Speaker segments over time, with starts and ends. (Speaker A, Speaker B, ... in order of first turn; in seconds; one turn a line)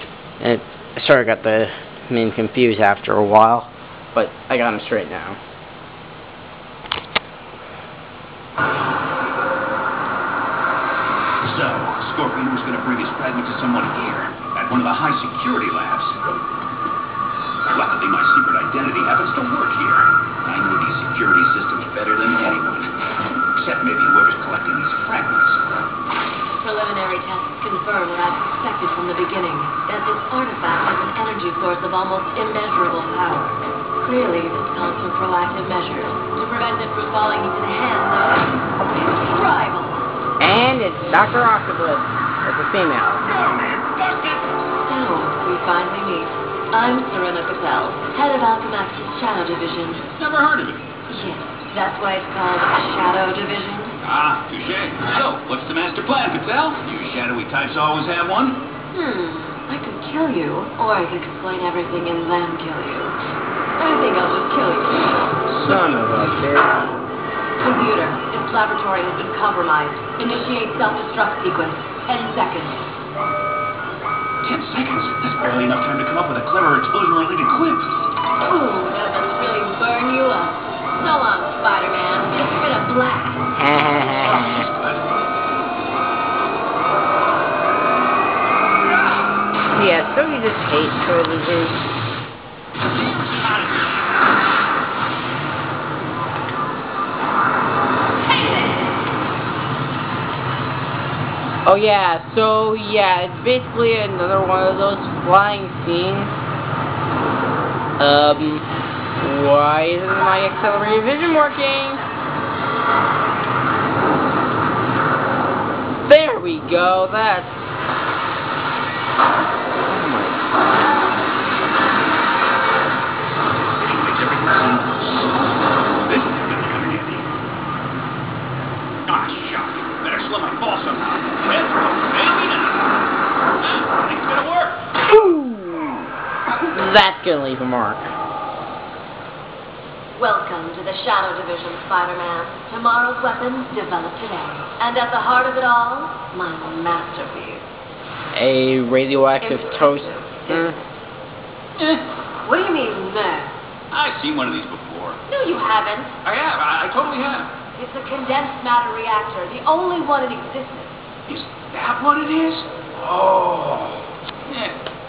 Speaker A: 0.4-5.4
Speaker B: 11.4-16.2
Speaker B: 17.7-22.9
Speaker B: 23.5-25.6
Speaker C: 26.6-40.1
Speaker A: 40.4-43.2
Speaker B: 43.3-44.5
Speaker C: 44.8-50.0
Speaker B: 50.0-51.0
Speaker C: 51.1-54.0
Speaker B: 54.0-58.6
Speaker C: 58.9-63.2
Speaker C: 63.8-65.2
Speaker A: 65.5-66.9
Speaker C: 67.6-72.9
Speaker B: 74.4-78.0
Speaker C: 78.4-83.5
Speaker A: 83.5-84.7
Speaker B: 84.1-85.0
Speaker A: 89.7-91.8
Speaker B: 93.1-93.9
Speaker A: 101.7-106.4
Speaker A: 108.0-108.7
Speaker A: 109.2-112.0
Speaker C: 110.1-112.1
Speaker A: 116.0-117.7
Speaker A: 119.8-120.4
Speaker B: 123.8-127.3
Speaker B: 129.1-132.9
Speaker B: 133.6-134.8
Speaker A: 135.1-136.1
Speaker A: 136.7-138.1
Speaker C: 140.1-147.6
Speaker A: 148.3-150.8
Speaker C: 149.4-150.8
Speaker B: 151.8-152.0
Speaker C: 152.4-153.5
Speaker B: 153.9-155.2
Speaker C: 155.3-156.2
Speaker B: 156.2-157.5
Speaker C: 157.7-160.9
Speaker B: 161.3-164.8